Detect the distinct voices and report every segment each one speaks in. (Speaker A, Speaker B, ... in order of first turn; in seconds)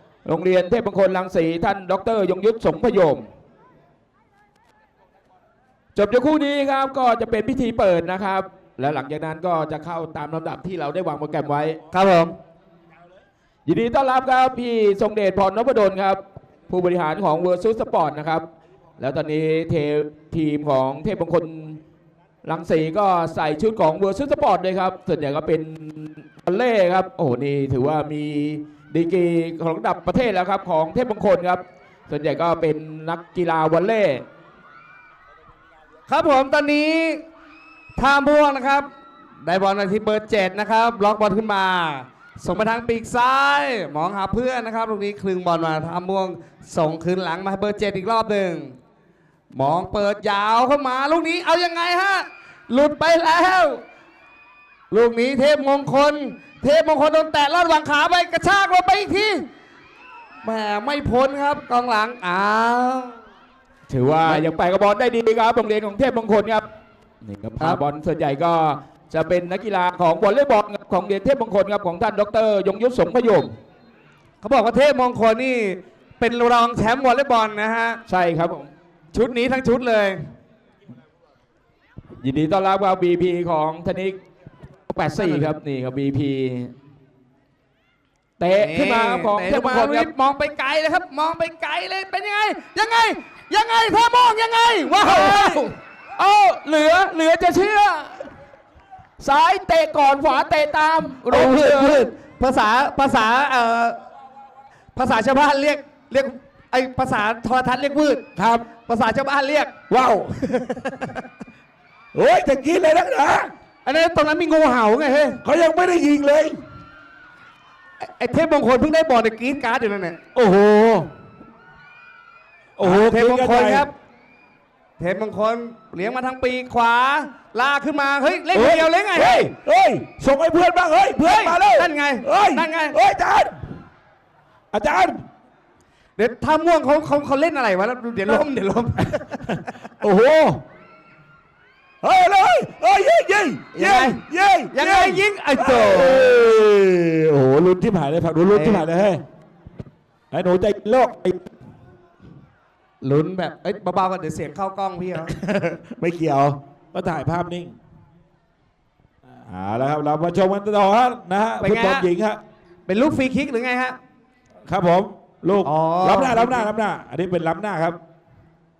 Speaker A: 0.2-3.2, 5.9-11.8, 13.7-18.4, 19.0-21.8, 22.4-34.2, 63.9-66.6, 67.2-73.5, 78.1-78.7, 82.2-84.2, 84.9-86.7, 88.4-90.1, 95.0-98.3, 99.2-102.1
Speaker B: 11.9-12.3, 36.1-37.2, 38.0-38.9, 39.4-48.7, 49.5-53.8, 54.9-59.5, 60.4-63.2, 74.4-78.0, 79.1-80.2, 85.2-85.4, 88.5-95.7, 101.2-104.0, 104.9-109.8, 110.4-111.2, 113.8-115.4, 118.0-120.2, 122.8-123.9, 125.0-129.5, 131.2-133.0, 136.2-139.7, 143.7-144.2, 144.7-146.4, 148.5-148.8, 153.0-155.3, 161.6-162.1, 162.9-164.0, 165.6-166.7
Speaker C: 108.3-108.7, 109.9-110.3, 112.1-113.5, 115.4-116.6, 120.3-121.1, 122.8-123.9, 128.5-133.6, 134.7-135.2, 140.0-140.6, 142.0-149.2, 150.3-151.5, 155.3-157.8, 159.4-162.4, 164.7-168.0